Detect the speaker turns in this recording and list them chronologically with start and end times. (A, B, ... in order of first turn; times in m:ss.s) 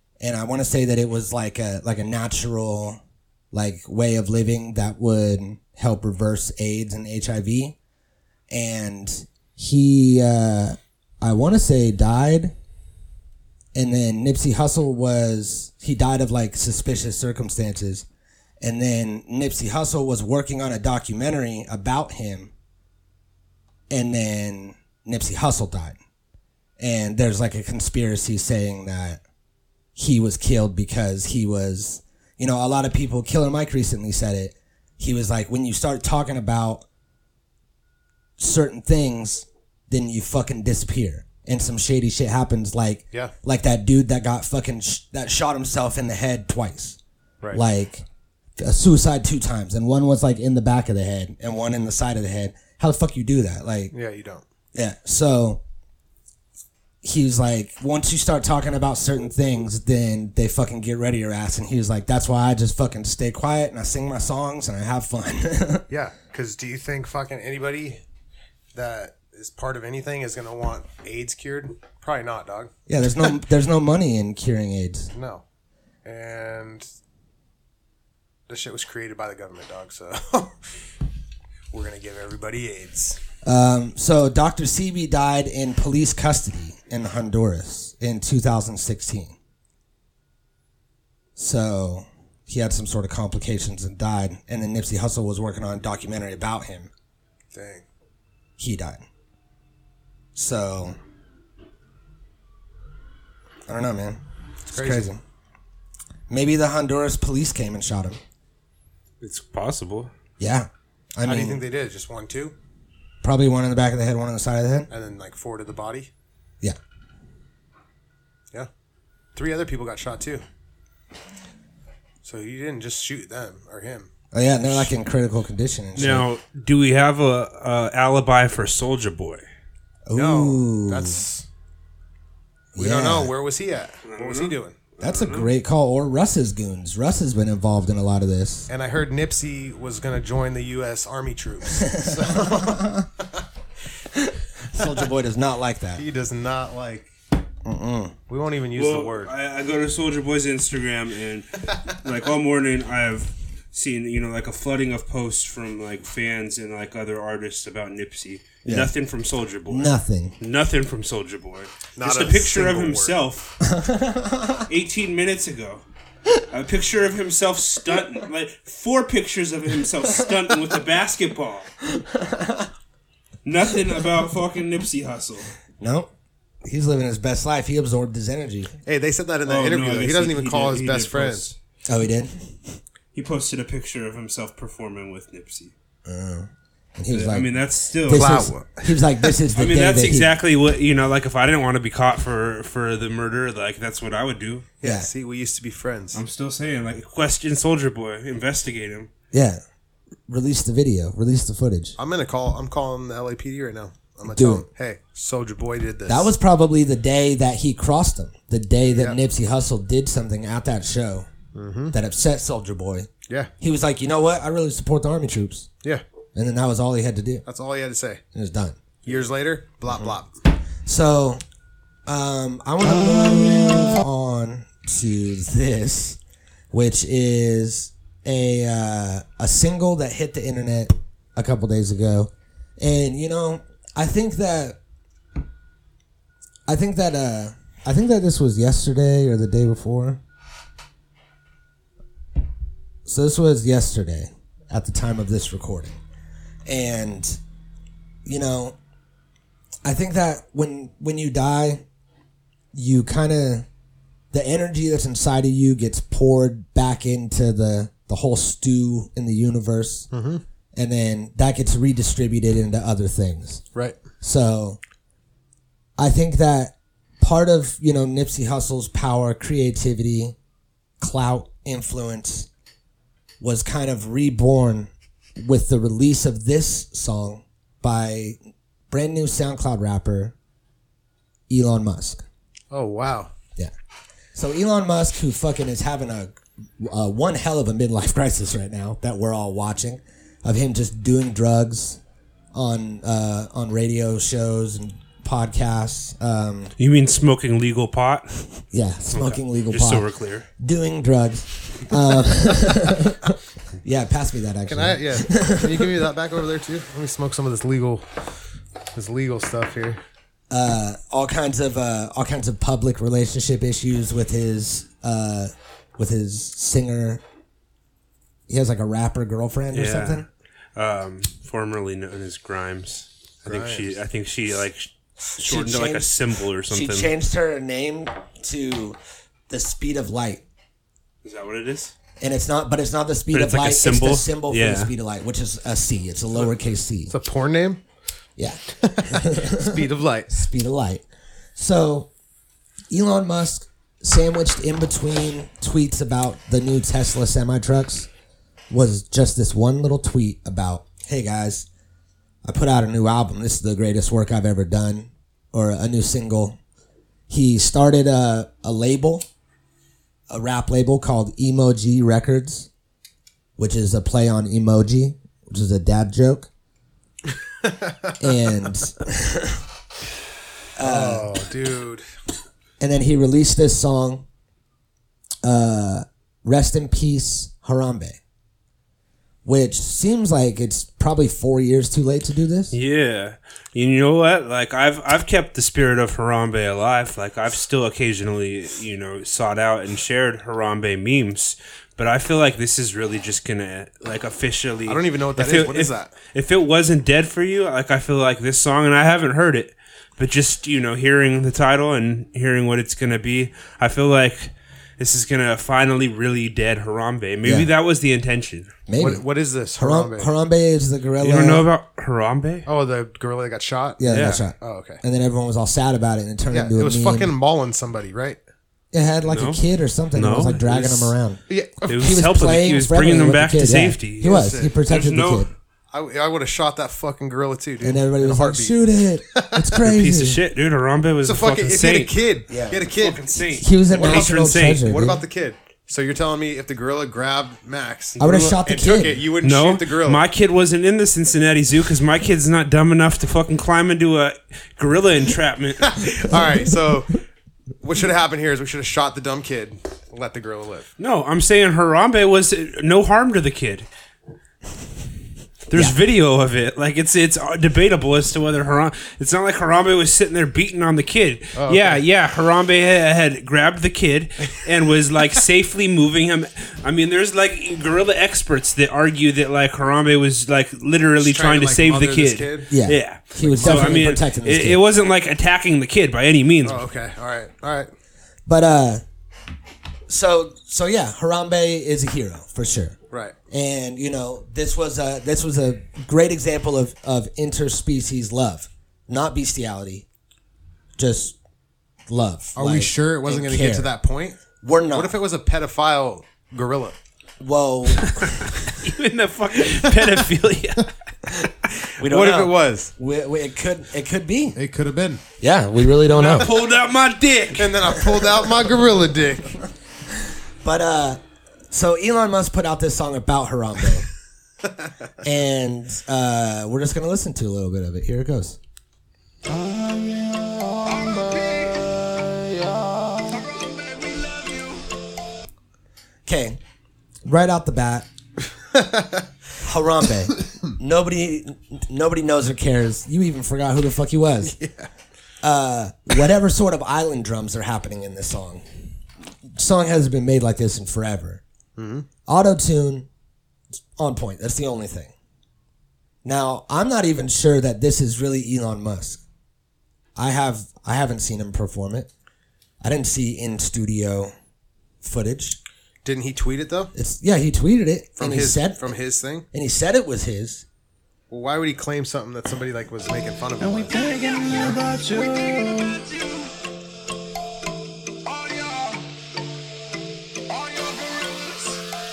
0:00.2-0:03.0 A
0:03.5-0:07.8 A
0:08.5-0:12.5 A
0:13.7-0:18.0 A
0:18.6-0:22.5 A
0:23.9-0:26.0 A
0:26.8-0:29.2 A
0:30.0-0:36.8 A
0:38.4-0:47.0 A
0:47.5-0:48.0 A
0:48.6-0:53.9 A
0:53.9-0:54.4 B
0:54.7-0:55.6 A
0:57.0-1:05.9 A
1:05.9-1:08.0 B
1:08.7-1:13.3 B
1:12.9-1:15.1 A
1:15.1-1:15.4 B
1:16.0-1:16.9 B
1:18.5-1:20.5 B
1:21.7-1:23.2 B
1:23.4-1:29.4 A
1:31.4-1:36.9 A
1:37.5-1:37.8 B
1:38.6-1:39.0 A
1:40.3-1:41.0 A
1:43.7-1:45.2 A
1:44.7-1:45.1 B
1:46.3-1:48.2 A
1:49.2-1:50.1 C
1:50.4-1:51.6 A
1:51.2-1:52.5 B
1:53.2-1:54.9 A
1:54.9-1:56.1 B
1:59.4-2:00.4 B
2:02.2-2:04.1 B
2:04.3-2:06.2 A
2:06.0-2:09.4 C
2:10.1-2:11.2 A
2:10.1-2:11.4 B
2:12.7-2:13.3 A
2:12.8-2:14.8 B
2:14.0-2:15.5 C
2:15.0-2:18.7 A
2:18.7-2:22.9 B
2:21.9-2:23.0 A
2:24.7-2:26.0 A
2:26.0-2:27.1 B
2:27.6-2:28.1 A
2:28.3-2:29.3 B
2:28.7-2:43.5 C
2:38.6-2:38.9 A
2:39.7-2:40.4 A
2:42.0-2:43.2 B
2:43.6-2:44.6 A
2:44.7-2:45.8 C
2:46.5-2:51.7 C
2:52.0-2:52.7 A
2:53.4-2:55.5 C
2:55.8-2:56.1 A
2:56.6-2:58.7 A
2:58.8-3:01.5 B
2:59.4-3:01.6 C
3:01.9-3:02.8 A
3:03.1-3:05.7 C
3:06.0-3:07.5 A
3:07.1-3:08.3 C
3:08.1-3:10.3 A
3:08.1-3:09.3 B
3:09.5-3:14.7 C
3:14.8-3:16.2 B
3:14.8-3:15.1 A
3:16.1-3:19.1 C
3:19.3-3:19.6 A
3:20.3-3:22.0 A
3:22.0-3:26.3 B
3:24.2-3:24.6 A
3:26.1-3:31.3 A
3:31.5-3:31.9 B
3:31.9-3:33.1 A
3:33.6-3:35.7 A
3:36.3-3:37.4 A
3:37.4-3:38.2 B
3:38.3-3:38.8 A
3:39.0-3:40.3 B
3:40.8-3:41.4 A
3:42.0-3:46.2 A
3:46.7-3:54.8 A
3:56.7-4:00.2 A
4:03.0-4:06.0 A
4:06.7-4:07.4 A
4:08.2-4:08.8 A
4:09.8-4:11.8 A
4:12.7-4:13.6 A
4:14.3-4:20.1 A
4:20.1-4:20.4 B
4:20.7-4:23.6 A
4:24.2-4:24.8 A
4:26.0-4:30.4 A
4:31.0-4:32.5 A
4:33.4-4:38.4 A
4:38.9-4:40.3 A
4:41.5-4:42.2 A
4:42.7-4:43.3 B
4:44.3-4:52.0 A
4:52.5-4:56.7 A
4:56.8-4:58.4 C
4:58.7-5:00.1 A
4:59.1-5:00.5 C
5:00.6-5:03.3 A
5:03.8-5:05.9 A
5:04.7-5:08.0 B
5:08.9-5:10.0 B
5:10.5-5:17.2 A
5:18.5-5:20.3 A
5:19.7-5:27.1 C
5:23.4-5:24.0 B
5:25.4-5:29.0 A
5:29.5-5:30.4 A
5:31.2-5:31.9 C
5:32.2-5:37.1 A
5:33.3-5:34.9 C
5:37.1-5:37.8 B
5:38.4-5:39.6 A
5:38.8-5:40.3 B
5:40.3-5:41.0 A
5:41.6-5:42.1 A
5:42.9-5:48.1 A
5:48.7-5:51.7 A
5:52.4-5:56.6 A
5:57.3-5:59.2 A
6:00.3-6:02.7 A
6:03.6-6:06.5 A
6:07.6-6:08.1 B
6:08.2-6:09.6 A
6:10.8-6:11.3 A
6:10.8-6:12.0 B
6:12.8-6:14.2 A
6:15.4-6:18.2 A
6:19.4-6:22.8 A
6:22.7-6:48.8 C
6:34.9-6:36.2 B
6:47.4-6:47.7 A
6:48.9-6:49.2 A
6:49.0-6:50.3 B
6:49.8-6:51.6 A
6:51.2-6:52.7 C
6:52.6-6:55.0 B
6:54.0-6:57.3 A
6:54.1-6:54.5 C
6:56.5-6:58.4 B
6:58.9-7:05.5 A
6:59.3-6:59.6 C
7:00.1-7:01.1 C
7:01.5-7:02.2 B
7:01.9-7:05.5 C
7:04.2-7:04.8 B
7:05.9-7:08.8 B
7:07.8-7:10.4 A
7:09.3-7:09.7 B
7:09.8-7:12.2 C
7:11.2-7:13.4 B
7:12.5-7:12.8 A
7:12.9-7:14.9 C
7:13.6-7:15.2 A
7:13.9-7:20.2 B
7:18.2-7:19.2 A
7:19.4-7:26.0 C
7:25.8-7:27.2 B
7:27.8-7:30.9 B
7:31.0-7:33.9 C
7:35.7-7:56.8 C
7:41.6-7:42.0 B
7:51.2-7:52.7 B
7:52.7-7:54.8 A
7:53.5-7:54.1 B
7:56.6-7:57.9 B
7:58.5-7:59.0 A
8:00.1-8:03.0 A
8:03.5-8:10.0 A
8:11.0-8:11.4 A
8:12.1-8:13.9 A
8:12.6-8:17.0 B
8:14.6-8:15.2 A
8:17.4-8:18.4 A
8:18.8-8:20.9 C
8:22.0-8:24.6 A
8:22.0-8:22.9 B
8:24.6-8:25.2 B
8:25.4-8:26.5 A
8:26.1-8:27.8 C
8:26.2-8:26.5 B
8:27.5-8:29.6 B
8:30.6-8:31.2 A
8:31.7-8:34.1 A
8:35.2-8:38.6 A
8:39.4-8:44.8 D
8:46.2-8:46.6 A
8:47.2-8:48.1 A
8:48.7-8:49.2 B
8:49.6-8:54.5 A
8:54.5-8:54.9 B
8:55.4-8:58.6 A
8:59.5-9:01.4 A
9:01.8-9:02.1 B
9:02.3-9:03.1 A
9:04.0-9:05.1 A
9:06.2-9:09.2 A
9:10.2-9:12.1 A
9:12.8-9:14.3 A
9:15.0-9:15.6 A
9:16.0-9:16.9 B
9:16.9-9:18.9 A
9:18.2-9:19.4 B
9:19.5-9:20.6 A
9:21.3-9:24.8 B
9:23.6-9:26.3 D
9:28.3-9:29.0 D
9:30.5-9:31.8 D